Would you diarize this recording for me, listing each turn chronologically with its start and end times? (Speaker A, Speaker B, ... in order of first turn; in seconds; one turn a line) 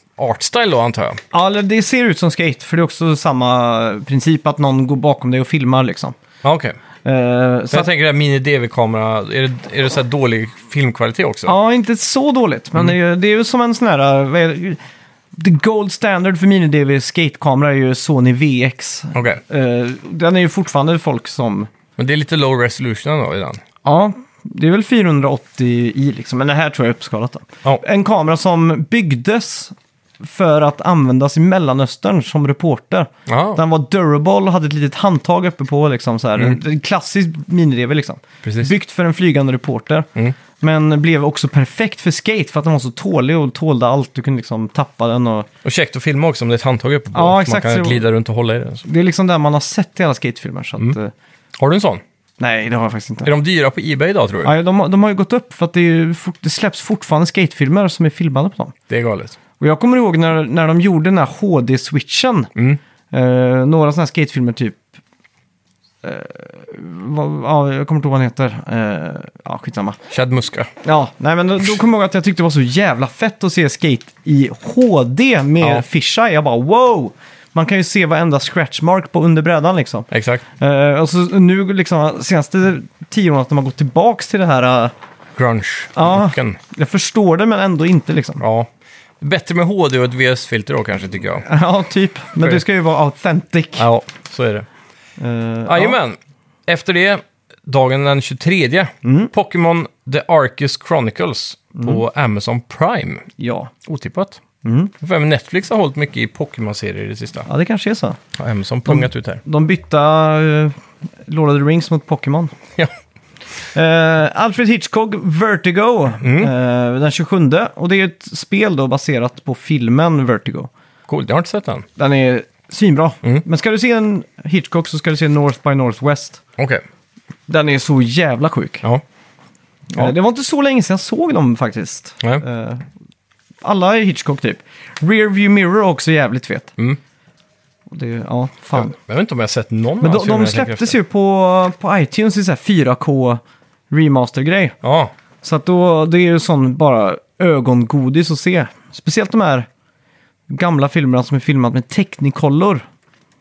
Speaker A: 0.2-1.2
Speaker B: 1.3-6.2
Speaker A: 6.4-6.8
Speaker B: 7.0-7.9
Speaker A: 7.7-11.6
Speaker B: 11.4-14.8
Speaker B: 15.3-21.7
Speaker A: 19.1-19.4
Speaker A: 22.0-23.6
Speaker B: 23.8-40.1
Speaker A: 33.3-33.6
Speaker A: 38.4-38.7
Speaker B: 40.6-45.5
Speaker A: 45.6-48.8
Speaker B: 47.1-48.0
Speaker B: 48.8-51.1
Speaker A: 51.6-52.0
Speaker B: 52.4-53.3
Speaker A: 53.2-54.5
Speaker B: 54.4-58.7
Speaker A: 58.9-59.4
Speaker B: 59.6-62.5
Speaker B: 63.1-64.8
Speaker B: 66.0-70.0
Speaker A: 70.1-70.7
Speaker B: 70.8-84.9
Speaker A: 80.1-80.4
Speaker A: 85.3-86.6
Speaker B: 86.0-88.4
Speaker A: 88.4-88.7
Speaker A: 89.2-91.4
Speaker B: 91.4-93.9
Speaker A: 93.8-94.7
Speaker B: 95.2-96.0
Speaker A: 95.7-103.3
Speaker B: 99.0-99.3
Speaker B: 101.8-102.0
Speaker B: 103.4-103.7
Speaker A: 103.8-104.4
Speaker B: 104.6-104.9
Speaker A: 105.0-107.5
Speaker B: 107.5-108.2
Speaker A: 108.3-109.4
Speaker B: 108.8-110.7
Speaker B: 111.2-112.5
Speaker B: 113.7-120.7
Speaker A: 116.2-116.5
Speaker A: 121.1-121.8
Speaker B: 122.0-126.4
Speaker B: 127.5-128.8
Speaker B: 129.9-132.8
Speaker B: 133.6-136.7
Speaker B: 137.9-138.9
Speaker A: 138.7-140.9
Speaker B: 140.0-144.8
Speaker A: 144.8-145.1
Speaker B: 145.4-149.7
Speaker B: 150.5-152.8